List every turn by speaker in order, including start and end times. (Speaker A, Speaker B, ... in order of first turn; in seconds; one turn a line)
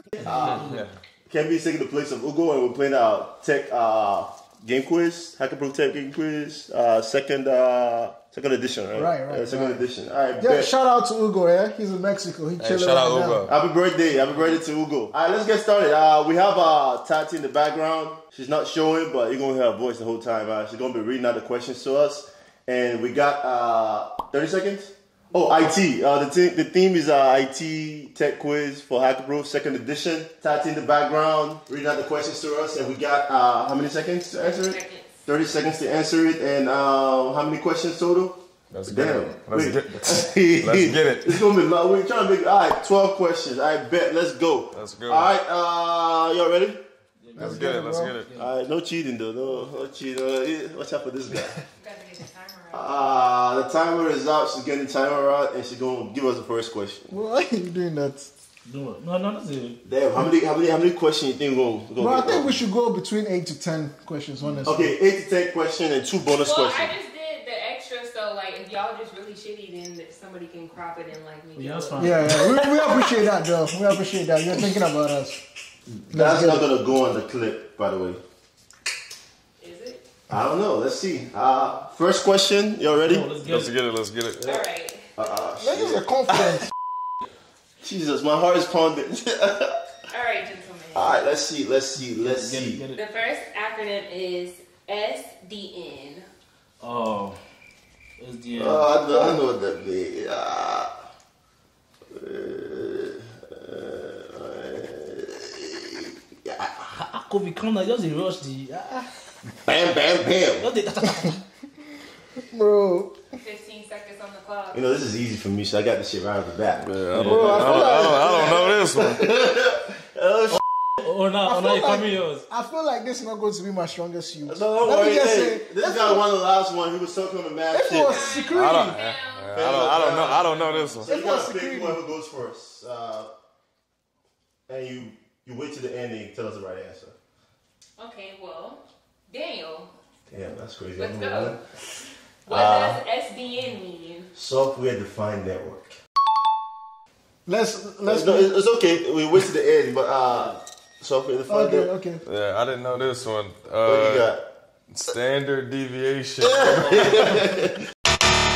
Speaker A: 0.1-0.9
Speaker B: 0.2-0.7
Speaker B: 1.3-10.7
Speaker C: 8.9-9.8
Speaker C: 10.4-13.4
Speaker D: 12.6-13.5
Speaker B: 13.4-46.8
Speaker A: 14.2-14.5
Speaker E: 34.4-35.2
Speaker D: 38.7-41.5
Speaker D: 44.7-45.3
Speaker A: 47.2-47.6
Speaker C: 47.4-48.1
Speaker D: 47.4-48.3
Speaker A: 48.2-48.5
Speaker B: 48.3-51.6
Speaker E: 51.8-53.0
Speaker B: 52.7-57.1
Speaker C: 57.1-58.3
Speaker A: 58.6-59.8
Speaker B: 59.8-62.6
Speaker C: 62.0-65.0
Speaker A: 64.4-64.7
Speaker B: 64.6-66.9
Speaker E: 66.4-72.3
Speaker A: 71.5-73.1
Speaker C: 72.0-75.4
Speaker B: 75.9-78.2
Speaker C: 76.1-76.7
Speaker E: 79.6-80.0
Speaker B: 80.3-83.3
Speaker A: 82.9-83.7
Speaker D: 83.4-84.6
Speaker E: 84.4-85.1
Speaker B: 85.2-86.0
Speaker C: 85.6-86.7
Speaker B: 87.8-89.8
Speaker E: 90.1-91.2
Speaker B: 90.9-92.8
Speaker A: 92.1-93.0
Speaker E: 92.9-96.2
Speaker A: 96.8-97.4
Speaker A: 98.2-99.0
Speaker B: 98.5-100.9
Speaker B: 102.1-106.7
Speaker A: 106.8-109.1
Speaker B: 109.6-110.7
Speaker A: 110.6-111.4
Speaker C: 112.5-113.1
Speaker E: 113.3-114.8
Speaker B: 114.7-120.6
Speaker D: 116.8-119.2
Speaker A: 117.1-117.5
Speaker C: 117.2-118.6
Speaker A: 121.0-122.4
Speaker C: 121.4-126.2
Speaker B: 124.4-128.4
Speaker C: 127.7-128.9
Speaker E: 128.0-129.9
Speaker D: 128.5-131.1
Speaker B: 129.5-133.3
Speaker A: 130.4-130.9
Speaker C: 131.1-132.0
Speaker B: 134.7-137.1
Speaker E: 138.0-139.9
Speaker B: 140.3-141.6
Speaker E: 141.0-141.6
Speaker E: 142.4-144.3
Speaker B: 142.5-143.0
Speaker B: 144.3-146.0
Speaker C: 147.5-148.6
Speaker B: 148.1-151.9
Speaker C: 151.5-152.2
Speaker D: 152.2-154.3
Speaker B: 153.8-154.4
Speaker D: 154.9-157.3
Speaker B: 156.4-157.7